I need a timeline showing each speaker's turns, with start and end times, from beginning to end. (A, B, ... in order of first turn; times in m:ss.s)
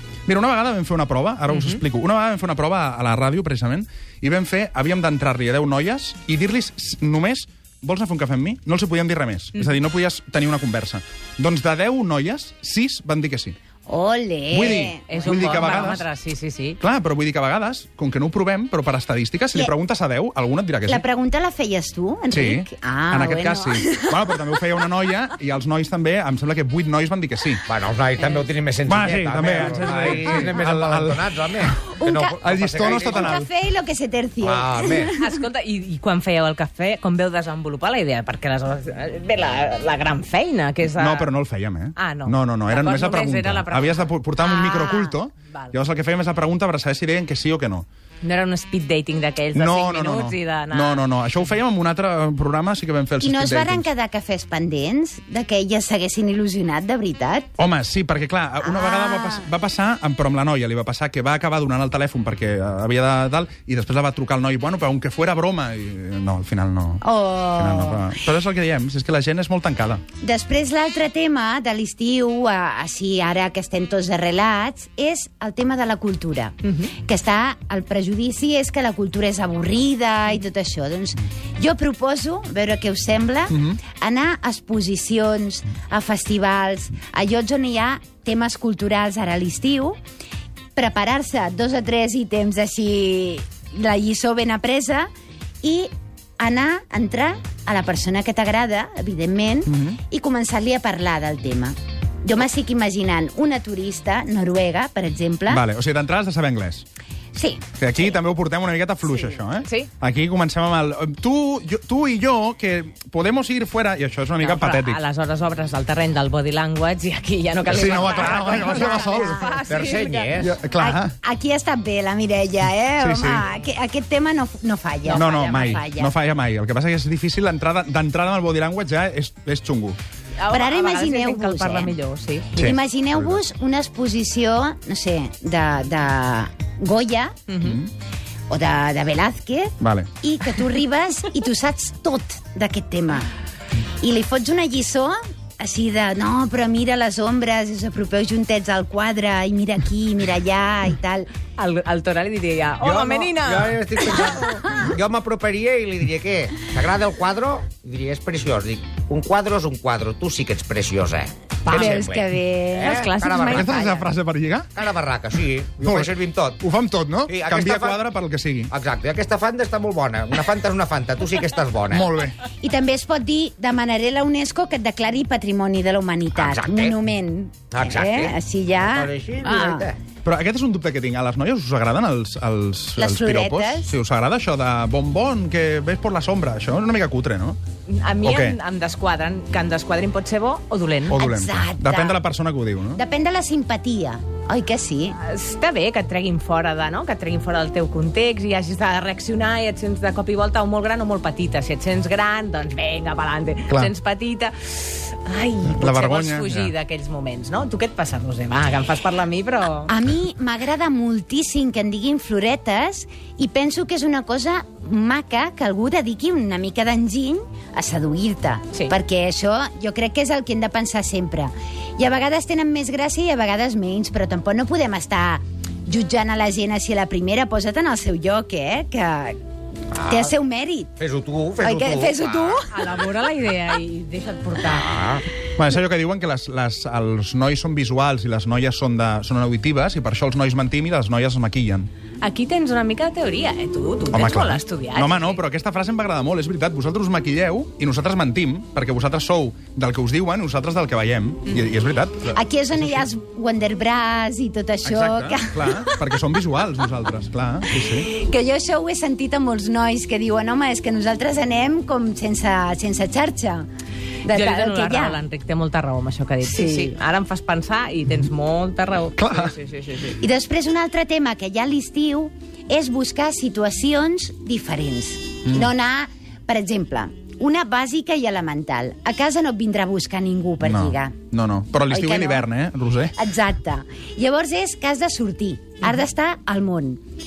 0:00.3-0:13.6 A
0:01.5-0:01.8 B
0:13.9-0:15.6 C
0:14.5-0:16.1 A
0:14.9-0:16.8 B
0:16.8-0:21.0 A
0:20.9-0:24.4 C
0:22.3-0:27.6 A
0:27.7-0:33.4 D
0:28.9-0:31.8 A
0:31.7-0:35.3 C
0:32.4-0:33.5 A
0:34.4-0:35.1 D
0:35.2-0:41.3 B
0:40.9-0:47.9 A
0:42.0-0:44.1 B
0:44.4-0:45.2 C
0:48.2-0:51.1 B
0:49.5-0:53.9 A
0:53.2-0:57.5 C
0:57.6-1:07.0 A
0:58.6-0:59.5 C
1:07.0-1:08.1 C
1:07.6-1:10.0 A
1:10.2-1:30.0 C
1:16.6-1:16.9 B
1:23.5-1:23.8 A
1:30.8-1:35.1 C
1:35.6-1:45.6 C
1:39.7-1:40.0 A
1:45.5-1:46.9 A
1:47.4-1:47.6 C
1:47.8-1:55.0 A
1:49.6-1:49.9 B
1:54.4-2:00.5 B
1:57.6-1:59.9 A
1:58.1-1:59.7 C
1:59.7-2:00.5 D
2:00.4-2:01.2 A
2:00.6-2:06.1 C
2:03.0-2:03.5 A
2:05.0-2:05.8 B
2:05.1-2:10.0 A
2:10.4-2:12.6 B
2:10.5-2:11.9 C
2:12.6-2:13.4 A
2:12.6-2:17.4 C
2:17.5-2:17.8 B
2:17.6-2:17.9 A
2:18.5-2:23.3 C
2:19.8-2:20.1 A
2:24.0-2:31.3 C
2:31.6-2:34.8 B
2:32.8-2:44.1 D
2:34.6-2:34.9 C
2:41.7-2:43.0 C
2:41.7-2:42.0 B
2:42.7-2:44.1 B
2:43.4-2:44.7 A
2:44.8-2:46.7 D
2:45.8-2:48.7 A
2:47.2-2:48.0 D
2:48.7-2:52.1 D
2:51.9-2:52.4 A
2:52.5-2:59.9 C
2:56.4-2:57.0 D
2:57.7-3:00.0 D
3:00.2-3:07.6 A
3:03.0-3:04.0 C
3:07.9-3:11.2 B
3:08.2-3:08.6 A
3:11.1-3:13.0 A
3:11.2-3:12.2 C
3:13.0-3:15.2 C
3:15.1-3:29.9 B
3:25.7-3:26.7 A
3:29.9-3:49.4 C
3:49.9-3:50.3 D
3:50.0-3:51.0 C
3:51.0-3:52.6 D
3:51.6-3:52.7 C
3:52.6-3:54.9 B
3:54.6-3:55.2 D
3:55.6-4:01.9 A
4:02.2-4:05.4 B
4:04.1-4:13.1 A
4:12.3-4:16.1 C
4:14.8-4:18.1 A
4:17.8-4:23.7 C
4:24.2-4:25.2 C
4:24.3-4:30.2 B
4:26.4-4:26.9 C
4:29.2-4:29.6 A
4:30.2-4:41.2 C
4:40.6-4:43.1 A
4:41.9-4:42.5 C
4:43.1-4:47.0 C